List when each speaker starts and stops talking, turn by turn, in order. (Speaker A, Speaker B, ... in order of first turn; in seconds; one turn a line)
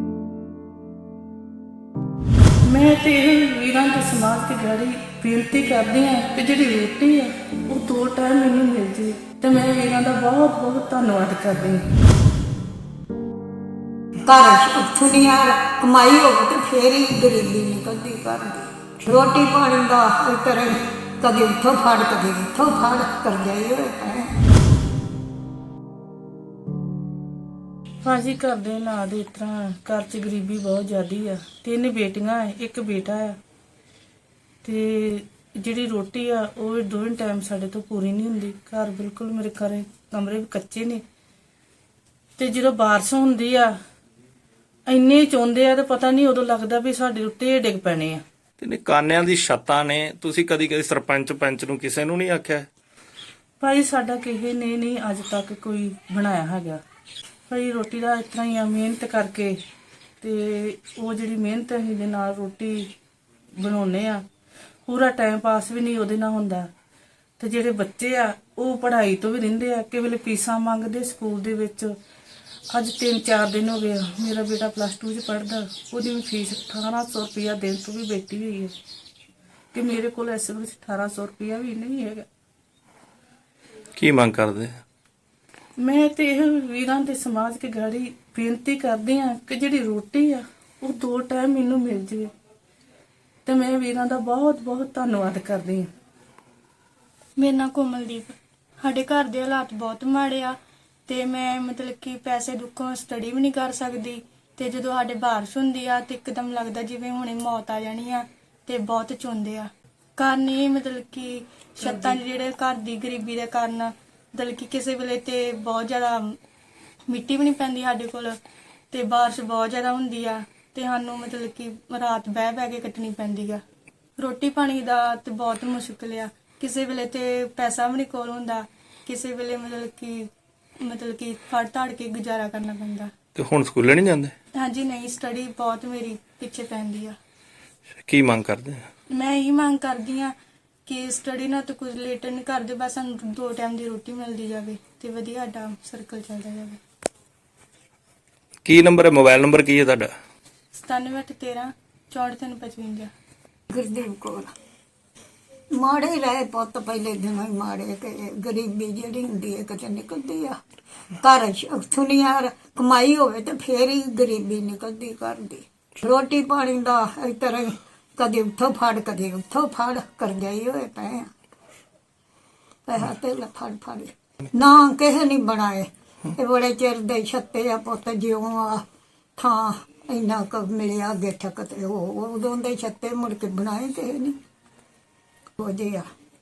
Speaker A: 2.6-11.8
Speaker B: 14.3-24.4
Speaker A: 28.0-33.4
Speaker A: 34.6-41.0
Speaker A: 42.4-43.8
Speaker A: 44.9-48.2
Speaker C: 48.6-52.7
Speaker A: 53.6-56.8
Speaker A: 57.5-59.6
Speaker A: 60.2-62.9
Speaker A: 63.6-64.2
Speaker A: 64.9-66.7
Speaker A: 67.4-72.0
Speaker A: 72.7-78.7
Speaker A: 79.7-82.3
Speaker C: 84.0-84.8
Speaker A: 85.8-92.3
Speaker A: 93.5-95.9
Speaker D: 97.4-100.6
Speaker D: 101.1-116.4
Speaker D: 117.1-118.4
Speaker D: 118.9-123.6
Speaker D: 124.2-130.3
Speaker D: 130.8-133.1
Speaker C: 133.4-134.3
Speaker D: 134.6-137.2
Speaker C: 138.1-138.8
Speaker D: 139.1-140.3
Speaker D: 140.9-146.8
Speaker C: 148.7-150.1
Speaker D: 150.7-153.1
Speaker B: 153.7-154.5
Speaker B: 155.7-160.6
Speaker B: 161.2-171.3
Speaker B: 172.9-178.8
Speaker B: 179.4-184.4
Speaker B: 185.6-186.1